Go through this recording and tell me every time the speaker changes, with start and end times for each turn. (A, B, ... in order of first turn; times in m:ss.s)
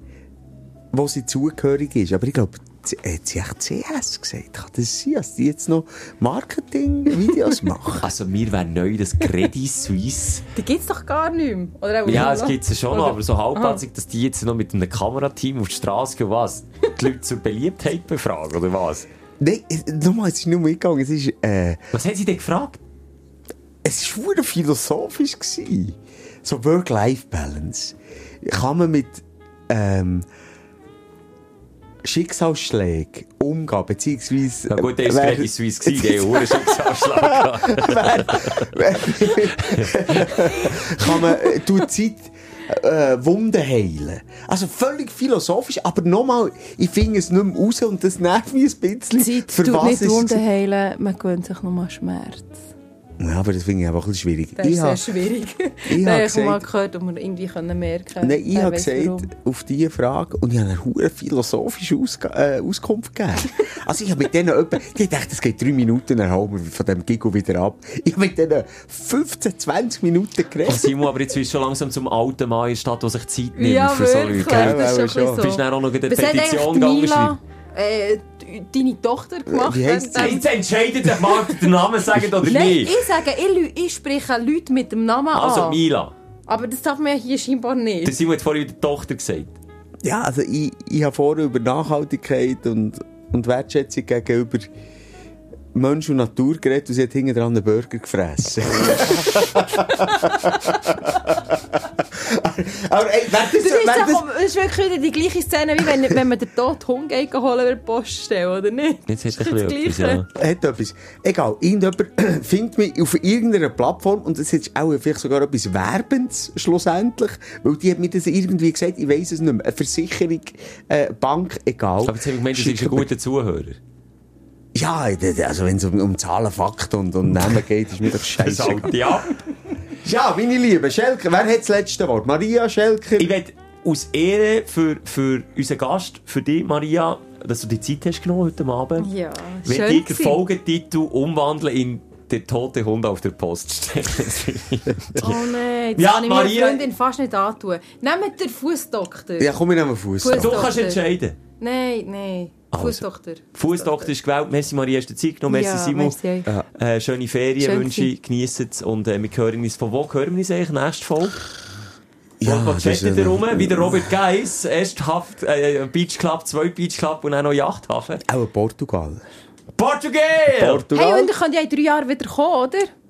0:00.9-0:08.1 A
0:08.0-0:10.4 B
0:10.5-0:13.8 C
0:12.0-0:19.1 B
0:19.4-0:21.8 A
0:21.9-0:22.8 B
0:23.8-0:30.3 A
0:32.0-0:50.4 A
0:34.7-0:38.7 B
0:39.6-0:40.2 B
0:49.2-0:52.6 C
0:53.2-0:55.0 A
0:54.6-0:59.3 C
0:55.9-0:56.6 A
0:58.2-1:10.9 A
1:10.6-1:14.8 B
1:13.6-1:20.4 C
1:14.5-1:15.4 A
1:15.4-1:17.4 B
1:19.5-1:20.4 A
1:20.1-1:23.0 B
1:22.4-1:25.8 C
1:25.3-1:26.1 B
1:26.5-1:28.1 C
1:28.0-1:29.5 B
1:30.0-1:34.7 A
1:35.7-1:44.2 A
1:43.6-1:50.2 C
1:49.1-1:50.3 B
1:50.3-2:03.1 A
2:02.0-2:03.8 B
2:04.7-2:09.0 A
2:08.4-2:09.4 B
2:10.0-2:13.3 A
2:13.2-2:19.1 B
2:19.0-2:20.4 C
2:19.6-2:25.4 B
2:25.2-2:29.6 C
2:25.9-2:26.9 B
2:29.4-2:30.7 A
2:30.2-2:31.0 C
2:30.4-2:31.4 B
2:31.6-2:34.1 C
2:32.7-2:33.0 B
2:33.5-2:41.4 B
2:35.5-2:36.5 C
2:37.6-2:38.1 C
2:42.4-2:44.1 A
2:42.4-2:48.2 B
2:48.2-2:49.2 A
2:49.8-2:50.8 B
2:50.6-2:51.3 A
2:50.9-2:52.9 C